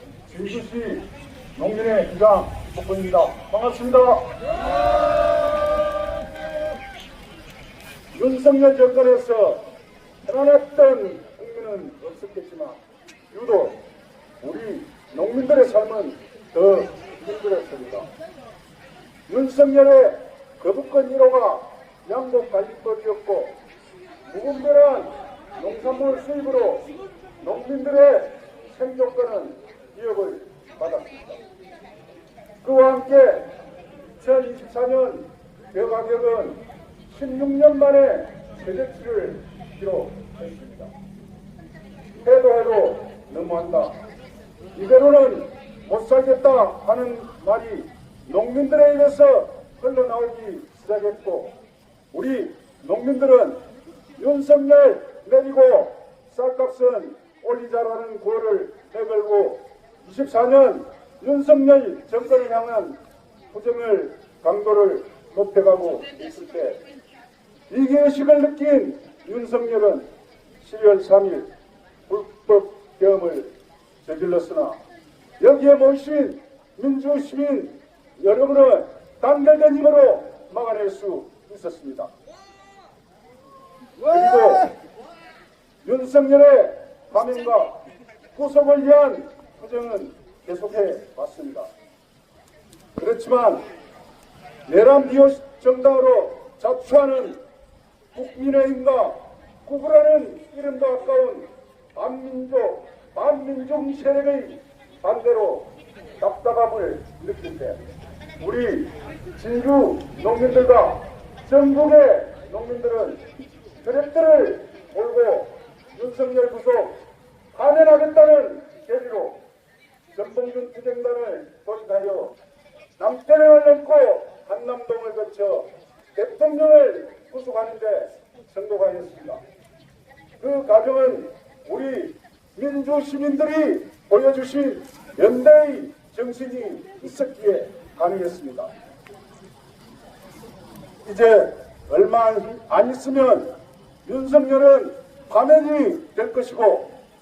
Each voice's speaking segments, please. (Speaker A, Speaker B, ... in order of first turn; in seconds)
Speaker A: 0.3-4.4, 8.1-9.7, 10.2-13.8, 14.4-18.1, 19.3-23.6, 24.3-31.4, 32.6-33.5, 34.2-40.9, 42.2-44.0, 44.7-51.5, 52.1-53.6, 54.2-63.0, 63.5-66.8, 67.7-70.1, 70.6-71.5, 72.1-74.8, 75.4-82.1, 84.0-84.7, 85.8-91.7, 93.0-93.7, 94.7-97.4, 98.1-107.8, 108.4-113.2, 113.8-117.0, 117.5-119.4, 120.1-122.4, 123.0-129.4, 130.4-138.7, 141.1-143.5, 144.1-146.9